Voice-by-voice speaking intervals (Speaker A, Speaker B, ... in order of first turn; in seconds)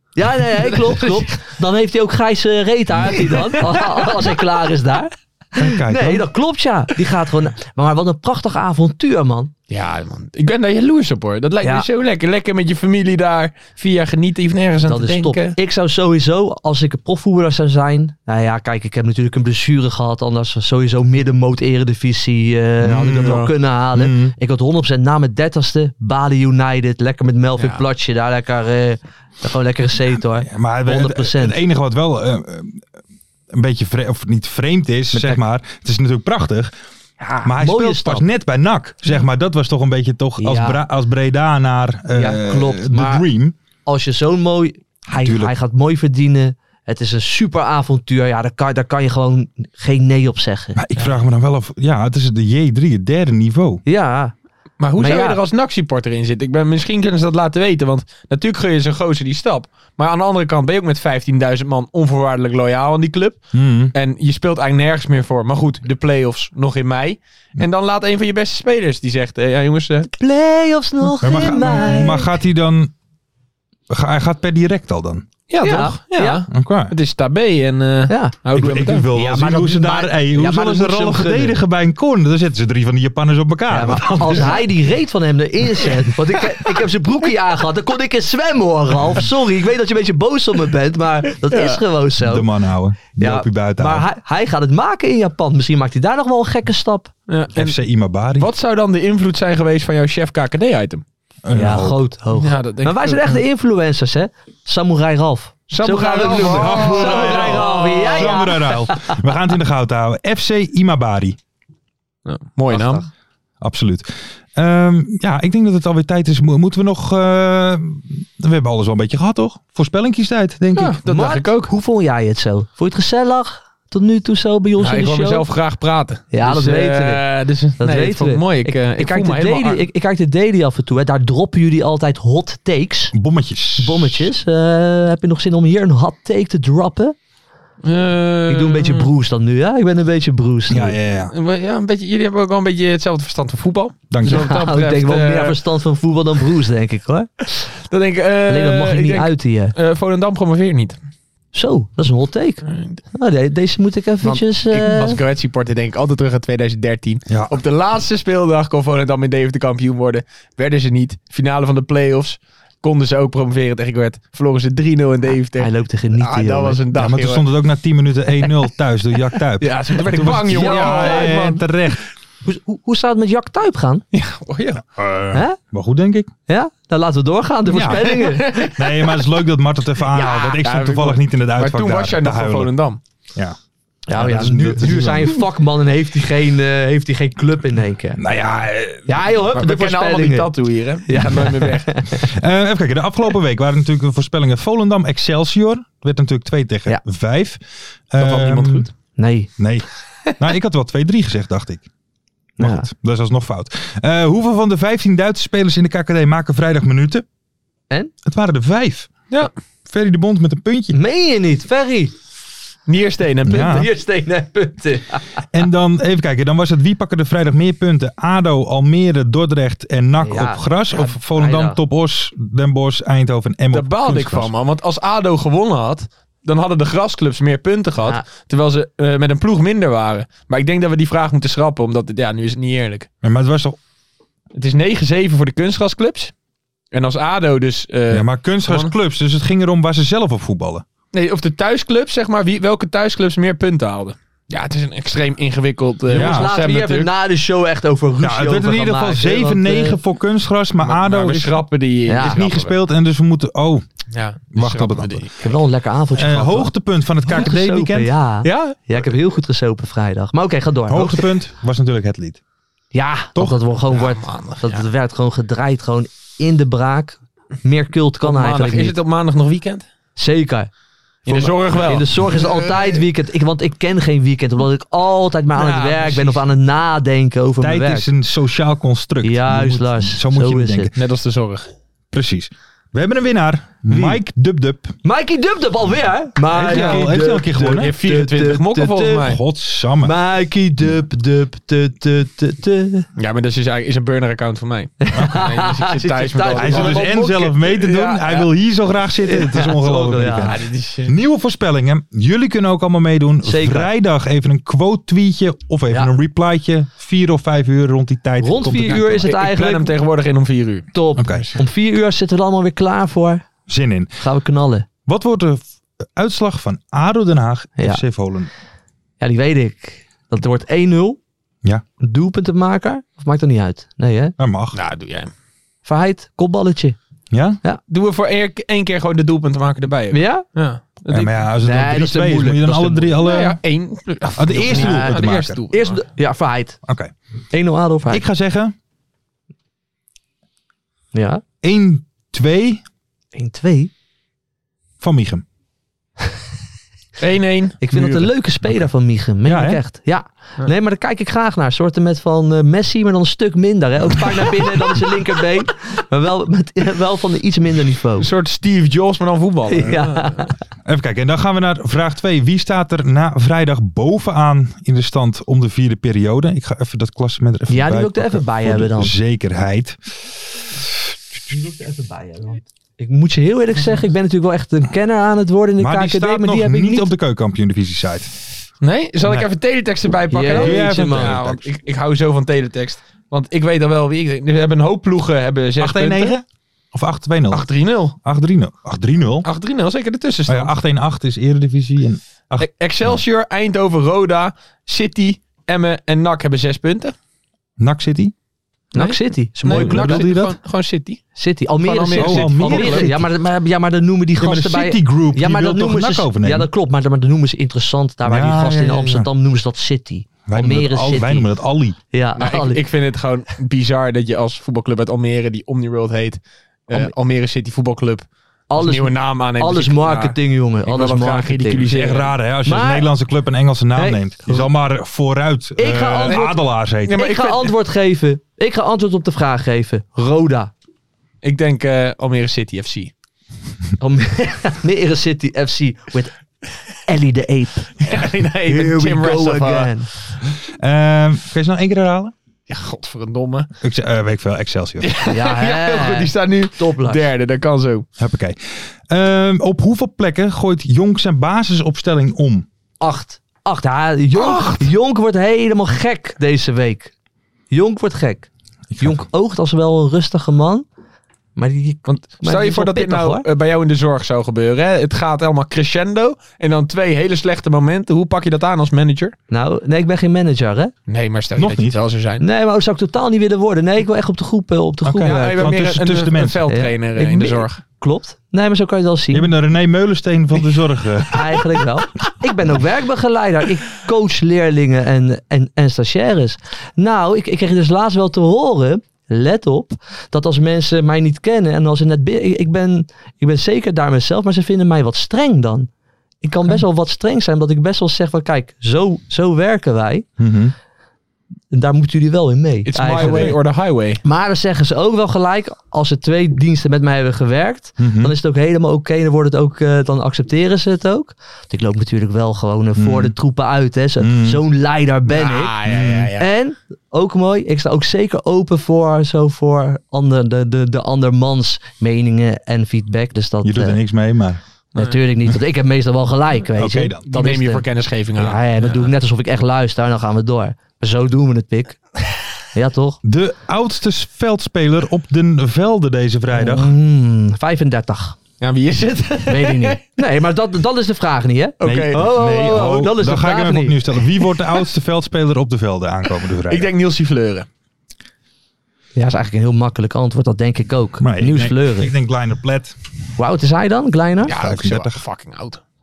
Speaker A: 0.2-9.5, 14.9-31.6, 35.1-35.4, 37.2-38.2, 40.4-40.8, 42.1-43.3, 43.9-50.8, 53.9-54.3, 55.0-55.4, 70.1-72.3, 75.6-76.4, 78.1-78.3, 79.1-81.6, 83.7-92.5, 93.2-97.1, 101.5-109.2, 112.7-113.1, 121.1-125.5, 126.3-127.2, 127.8-133.1, 133.8-137.2, 138.5-141.0, 144.3-147.3, 148.5-149.7, 151.5-152.6, 153.1-155.2, 165.6-166.8, 170.5-171.4, 172.4-174.1, 175.3-175.6, 176.5-178.7, 184.1-188.2, 189.1-190.5, 191.1-192.3, 199.2-199.5, 202.6-202.9, 210.9-212.1, 213.5-215.4, 220.2-221.8, 246.1-250.0, 252.1-252.4, 255.4-256.7, 257.3-261.3, 262.9-269.0, 270.2-270.7, 271.3-278.1, 279.2-280.9, 283.9-284.2, 285.0-289.3, 290.0-293.1, 295.0-297.5, 299.3-300.6, 303.4-303.9, 308.4-309.9, 310.9-313.4, 314.2-314.9, 319.2-321.2, 322.0-324.4, 325.9-327.0, 330.1-330.5, 331.6-333.2, 334.7-335.2, 335.7-336.8, 337.5-338.2, 341.1-341.4, 343.3-343.9, 347.8-358.3, 359.7-360.5, 367.7-369.1, 371.5-377.1, 380.3-381.4, 398.9-400.2, 401.4-411.5, 412.1-412.8, 418.7-421.9, 422.7-423.1, 424.0-424.6, 425.8-430.7, 434.0-436.3, 437.1-438.1, 438.7-440.1, 445.3-447.2, 453.0-457.1, 457.7-460.9, 461.6-463.4, 469.5-470.9, 472.4-475.7, 476.7-479.5, 481.3-495.9, 496.4-500.3, 501.7-503.6, 504.2-515.7, 516.4-524.0, 525.0-527.8, 528.4-532.0, 532.7-533.2, 536.5-538.4, 539.5-544.2, 549.1-552.1, 553.4-554.5
Speaker B: 0.6-1.2, 3.2-3.6, 9.7-15.6, 23.2-23.5, 27.6-27.8, 54.8-63.4, 63.9-70.1, 75.5-79.1, 91.5-91.8, 97.3-97.8, 98.4-101.0, 102.4-103.4, 105.7-108.4, 112.3-113.0, 120.8-121.7, 124.8-129.8, 137.8-139.1, 141.3-145.6, 147.9-151.0, 152.7-153.0, 154.2-167.5, 169.6-171.6, 174.1-174.8, 178.2-178.8, 180.2-183.0, 189.6-191.9, 198.2-198.9, 212.9-213.8, 223.7-233.1, 234.5-236.3, 236.9-238.9, 241.1-247.1, 250.8-252.8, 254.1-255.4, 258.4-258.8, 263.9-264.9, 268.2-269.8, 271.3-272.7, 275.6-276.4, 281.0-281.7, 286.7-287.1, 287.6-289.4, 293.2-298.5, 300.4-301.1, 308.9-311.5, 324.7-325.3, 327.9-331.4, 333.2-336.0, 347.2-348.3, 358.2-360.5, 378.8-386.4, 387.5-388.2, 389.4-390.7, 392.6-397.1, 398.9-401.2, 401.8-403.1, 412.4-422.3, 427.1-427.7, 431.4-433.1, 438.0-439.9, 442.7-443.7, 445.0-448.1, 454.4-454.8, 462.1-469.4, 471.1-472.4, 475.2-477.8, 502.9-504.2, 515.3-516.5, 527.3-529.1, 538.6-540.0, 541.8-542.2, 546.7-547.7, 554.4-555.8
Speaker C: 5.6-6.3, 22.8-24.4, 30.4-32.8, 33.5-36.7, 37.4-43.5, 45.2-45.5, 50.8-53.8, 63.5-63.9, 71.2-72.9, 73.9-75.3, 76.5-77.0, 78.5-84.6, 92.2-94.1, 97.5-98.5, 101.5-102.0, 106.2-111.4, 113.6-121.0, 133.1-134.3, 140.7-141.3, 144.1-144.5, 157.3-157.6, 166.9-172.0, 174.9-176.3, 177.7-182.7, 184.1-185.4, 188.2-189.3, 192.2-197.6, 198.1-198.9, 199.6-199.9, 200.4-201.9, 202.6-207.2, 208.2-209.1, 209.9-211.0, 213.4-213.9, 215.5-224.5, 233.2-233.8, 238.1-240.8, 246.1-246.5, 248.2-251.6, 252.2-253.8, 254.5-255.3, 256.1-258.1, 260.9-262.4, 277.6-280.9, 282.1-284.9, 286.5-287.9, 289.2-290.1, 295.1-295.5, 296.6-309.4, 311.2-311.5, 313.7-314.1, 315.1-315.6, 316.2-318.5, 324.4-324.8, 327.3-327.6, 331.1-333.6, 334.4-335.6, 336.9-337.1, 338.1-338.7, 341.6-342.8, 345.0-345.4, 349.4-349.8, 360.9-370.0, 375.8-378.3, 380.5-381.7, 385.8-387.7, 388.2-389.5, 390.5-393.2, 397.8-398.3, 399.7-400.6, 402.2-403.2, 404.4-406.7, 408.2-409.3, 410.5-412.0, 421.9-427.2, 440.8-442.3, 443.8-445.1, 448.2-452.7, 459.0-459.2, 471.6-472.0, 475.1-476.6, 479.3-481.6, 500.4-500.7, 508.0-508.3, 513.0-513.4, 514.2-514.6, 515.9-516.3, 523.6-524.6, 526.8-527.2, 533.2-536.9, 541.8-546.9, 551.2-553.0, 554.5-555.2